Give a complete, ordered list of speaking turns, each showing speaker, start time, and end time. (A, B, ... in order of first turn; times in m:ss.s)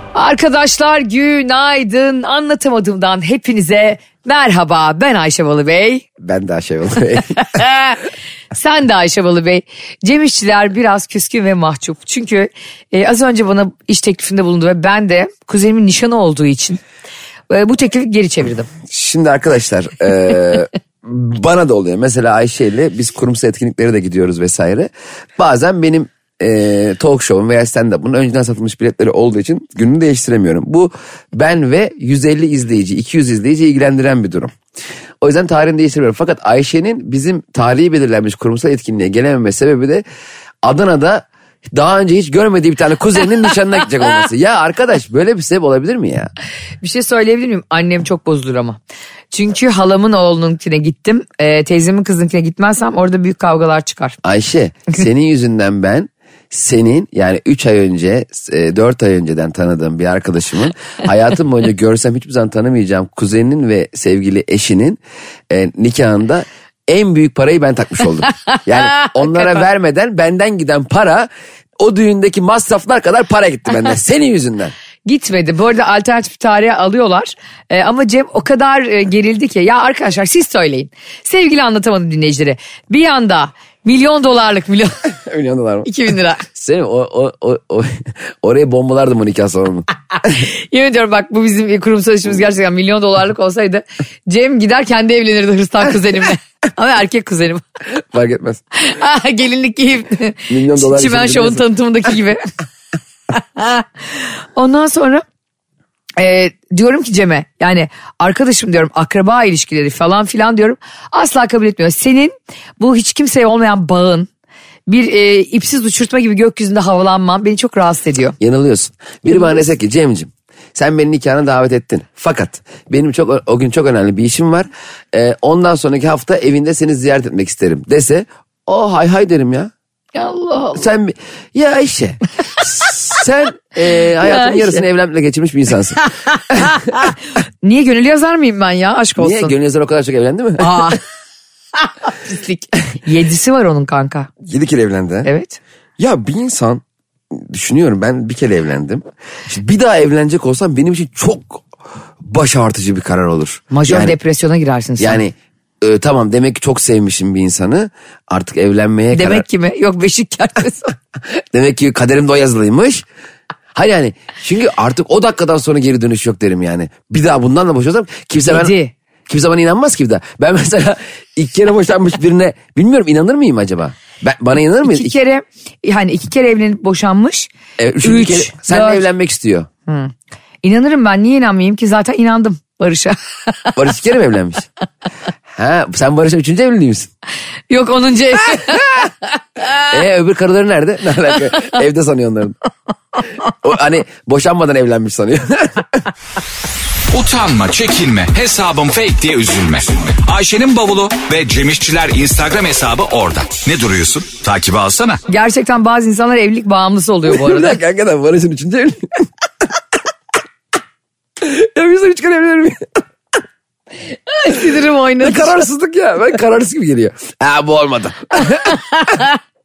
0:00.1-0:06.0 A
0:06.2-0:07.4 B
0:07.3-0:08.0 A
0:08.5-0:16.8 A
0:17.5-0:18.7 A
0:18.9-0:34.5 B
0:35.2-0:40.0 B
0:40.6-0:46.3 B
0:46.8-0:48.8 A
0:49.3-0:54.2 A
0:54.2-1:14.7 B
1:08.5-1:09.6 A
1:15.0-1:25.0 A
1:25.1-1:25.9 B
1:25.8-1:26.4 A
1:26.5-1:30.4 B
1:30.2-1:37.6 A
1:38.0-1:38.6 B
1:38.8-1:42.4 A
1:40.5-1:41.6 B
1:43.3-1:45.2 A
1:46.2-1:54.3 A
1:54.9-1:58.4 A
1:58.4-2:09.7 B
2:10.1-2:10.8 A
2:10.7-2:16.8 B
2:14.2-2:14.8 A
2:16.2-2:19.5 A
2:19.2-2:21.0 B
2:20.6-2:21.0 A
2:21.8-2:24.3 A
2:24.4-2:25.3 B
2:25.2-2:25.6 A
2:26.0-2:31.6 B
2:32.2-2:34.2 B
2:33.7-2:35.2 A
2:35.0-2:39.4 B
2:39.1-2:40.9 A
2:41.4-2:43.0 B
2:43.7-2:48.7 B
2:48.5-2:48.9 A
2:49.3-2:55.1 B
2:54.8-2:57.5 A
2:57.8-2:59.7 B
2:58.0-2:59.0 A
2:59.9-3:03.8 A
3:03.8-3:04.7 B
3:05.5-3:07.1 B
3:07.7-3:09.8 A
3:09.9-3:12.6 B
3:13.6-3:16.0 B
3:17.1-3:25.2 C
3:25.3-3:27.8 A
3:27.2-3:29.1 B
3:31.4-3:32.8 B
3:34.3-3:35.6 A
3:35.2-3:38.8 B
3:38.5-3:39.3 A